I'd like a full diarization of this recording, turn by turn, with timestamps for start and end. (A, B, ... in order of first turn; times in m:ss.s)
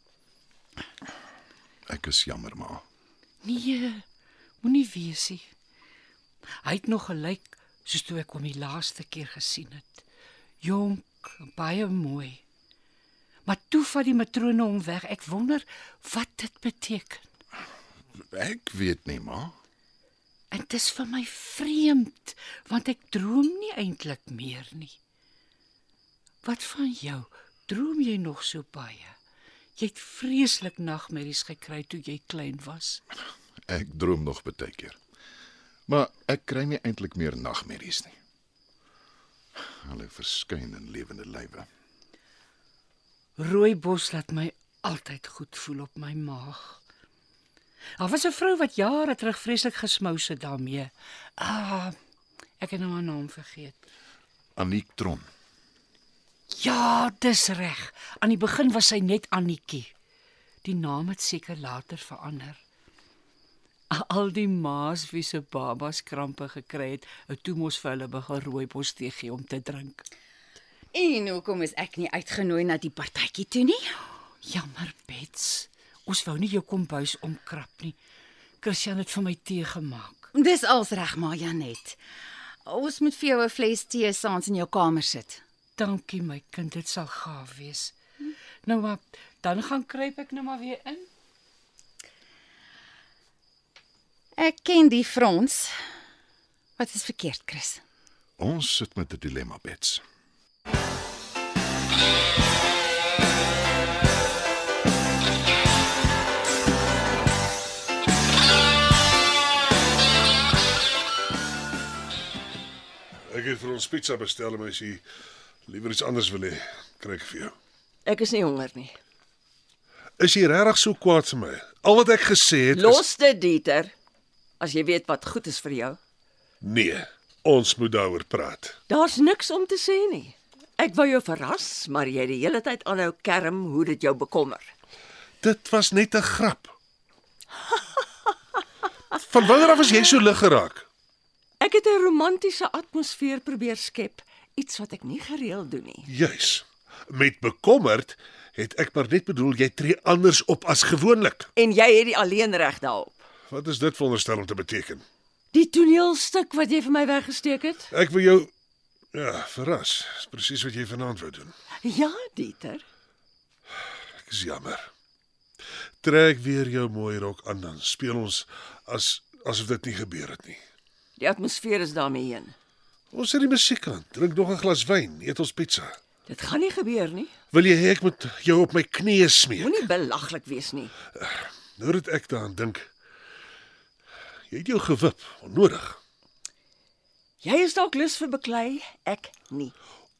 0:01.9-0:02.8 A
0:03.4-0:04.0 B
0:04.6-0:05.4 B
0:06.6-0:10.0 B
0:10.6-0:12.4 B
0:13.4-0:17.3 B
0:18.2-0:19.6 A
0:20.5-0:25.0 B
0:26.4-0:29.2 B
0:29.8-0:33.0 B
0:33.7-0:35.0 A
0:35.9-0:38.2 A
0:39.6-0:41.7 A
0:43.4-0:46.8 B
0:48.0-0:51.9 B
0:52.6-0:53.8 B
0:54.6-0:55.3 A
0:56.6-0:59.9 B
1:00.6-1:02.6 B
1:03.9-1:10.0 B
1:10.9-1:14.0 C
1:14.4-1:18.0 B
1:18.6-1:20.3 B
1:20.3-1:22.0 C
1:22.6-1:25.4 C
1:25.8-1:27.9 B
1:28.6-1:31.1 B
1:34.4-1:35.8 C
1:36.8-1:37.8 C
1:38.4-1:40.0 A
1:53.3-1:55.0 D
1:55.7-1:57.5 D
1:58.0-1:59.0 E
2:00.2-2:03.0 D
2:02.7-2:03.9 E
2:04.6-2:06.0 E
2:06.6-2:08.8 D
2:08.9-2:14.7 E
2:15.4-2:16.7 D
2:19.2-2:20.9 D
2:21.6-2:26.1 E
2:26.1-2:31.5 D
2:31.6-2:33.2 E
2:33.5-2:35.0 D
2:35.5-2:37.9 E
2:37.9-2:38.5 D
2:39.1-2:41.5 D
2:41.8-2:42.8 E
2:44.2-2:44.9 D
2:46.0-2:50.6 D
2:51.2-2:52.6 E
2:53.1-2:56.0 D
2:56.3-2:57.3 E
2:57.5-2:59.9 D
2:59.6-3:00.9 E
3:01.2-3:02.9 D
3:04.5-3:06.0 D
3:07.4-3:09.7 E